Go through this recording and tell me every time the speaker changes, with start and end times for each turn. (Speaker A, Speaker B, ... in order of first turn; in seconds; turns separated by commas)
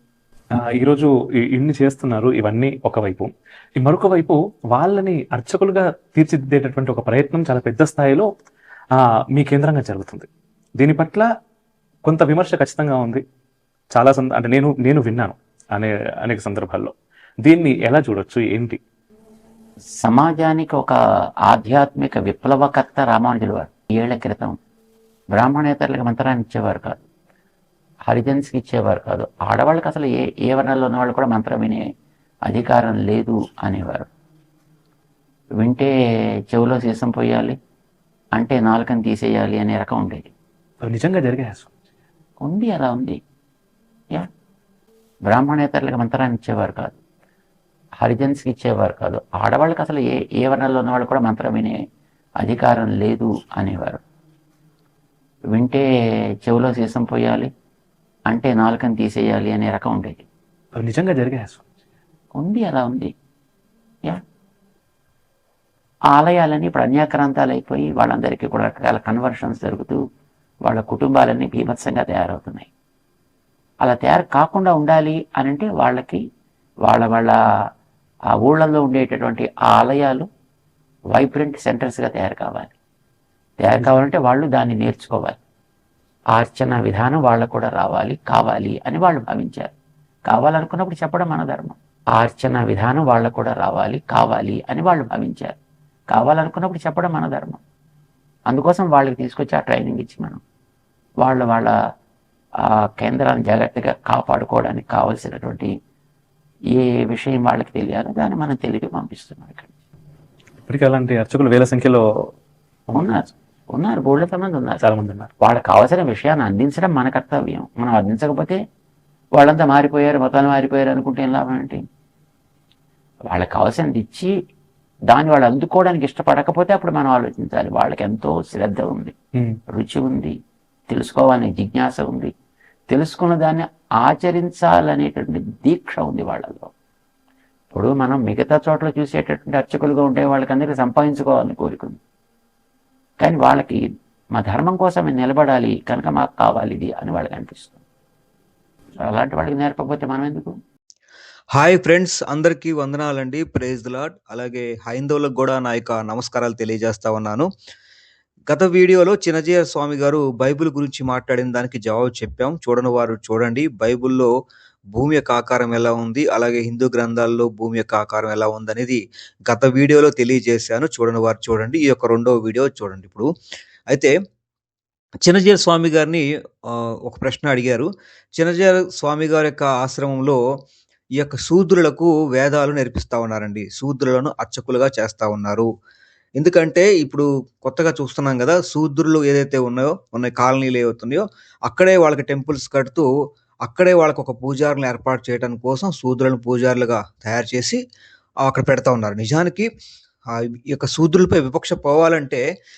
Speaker A: 0.6-8.3, Speaker A: 9.0-11.3, Speaker A: 12.0-13.2, Speaker A: 13.9-18.8, Speaker B: 20.0-20.9, Speaker B: 21.5-24.6, Speaker B: 25.4-27.1, Speaker B: 28.1-31.8, Speaker B: 32.5-34.1, Speaker B: 35.6-35.9, Speaker B: 36.5-37.5, Speaker B: 38.4-40.3, Speaker A: 40.8-41.7, Speaker B: 42.4-43.2, Speaker B: 45.3-47.0, Speaker B: 48.0-51.8, Speaker B: 52.4-54.0, Speaker B: 55.5-55.9, Speaker B: 56.4-57.5, Speaker B: 58.3-60.3, Speaker A: 60.8-61.6, Speaker B: 62.4-63.1, Speaker B: 66.1-70.0, Speaker B: 70.7-72.7, Speaker B: 73.8-76.2, Speaker B: 76.9-77.3, Speaker B: 78.4-80.3, Speaker B: 81.1-82.7, Speaker B: 83.6-85.4, Speaker B: 86.3-89.7, Speaker B: 90.3-95.6, Speaker B: 96.1-97.6, Speaker B: 98.5-100.4, Speaker B: 101.2-101.7, Speaker B: 103.0-105.7, Speaker B: 106.8-109.7, Speaker A: 110.7-112.0, Speaker B: 112.9-114.8, Speaker A: 114.8-115.3, Speaker B: 115.4-118.6, Speaker B: 119.4-121.8, Speaker B: 123.3-124.3, Speaker B: 125.1-129.1, Speaker B: 129.7-130.3, Speaker B: 130.9-132.3, Speaker B: 132.9-136.7, Speaker B: 137.7-142.0, Speaker B: 143.2-147.8, Speaker B: 149.0-150.6, Speaker C: 151.6-157.5, Speaker C: 158.5-164.3, Speaker C: 164.9-173.3, Speaker C: 175.2-180.4, Speaker C: 181.2-185.7, Speaker C: 186.4-193.1, Speaker C: 193.7-197.8, Speaker C: 198.4-199.7, Speaker C: 200.3-202.4